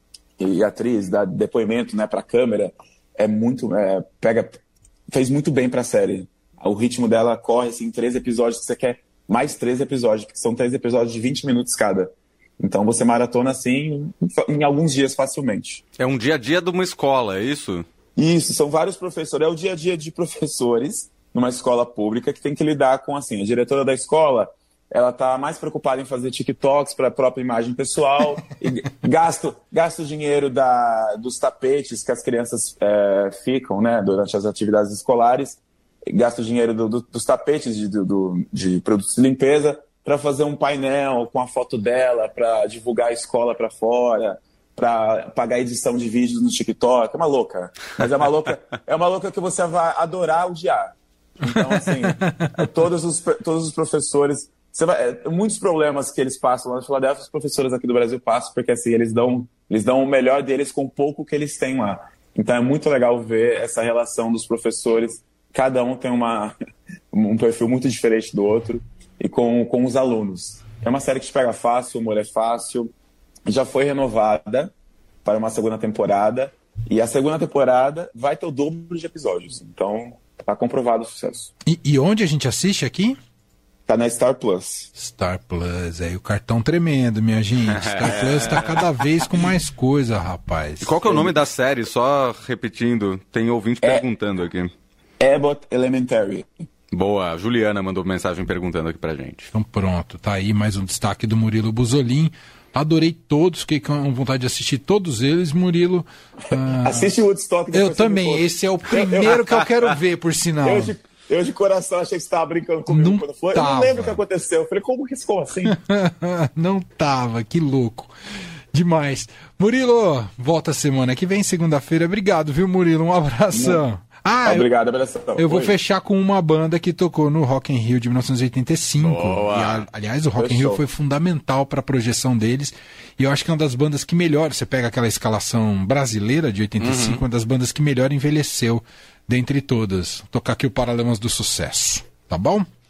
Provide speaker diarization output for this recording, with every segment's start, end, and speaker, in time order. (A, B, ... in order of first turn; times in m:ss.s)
0:00.4-0:15.8 A
0:16.0-0:17.9 B
0:18.2-1:06.6 A
0:51.5-0:52.8 C
1:07.1-1:12.9 A
1:13.4-1:14.7 A
1:15.2-1:21.5 A
1:21.6-1:23.2 C
1:23.9-1:24.9 A
1:24.9-1:30.9 C
1:27.8-1:28.8 B
1:30.8-1:34.7 B
1:31.0-1:31.3 A
1:35.2-1:36.5 A
1:36.9-1:39.5 B
1:39.5-1:47.1 C
1:46.8-1:49.2 A
1:47.7-1:50.9 C
1:50.7-1:55.7 A
1:52.9-1:54.2 C
1:55.6-1:58.1 C
1:58.7-2:04.7 C
2:03.5-2:03.8 A
2:04.5-2:05.7 A
2:05.4-2:22.7 C
2:09.0-2:09.9 B
2:10.4-2:10.8 A
2:16.8-2:17.2 B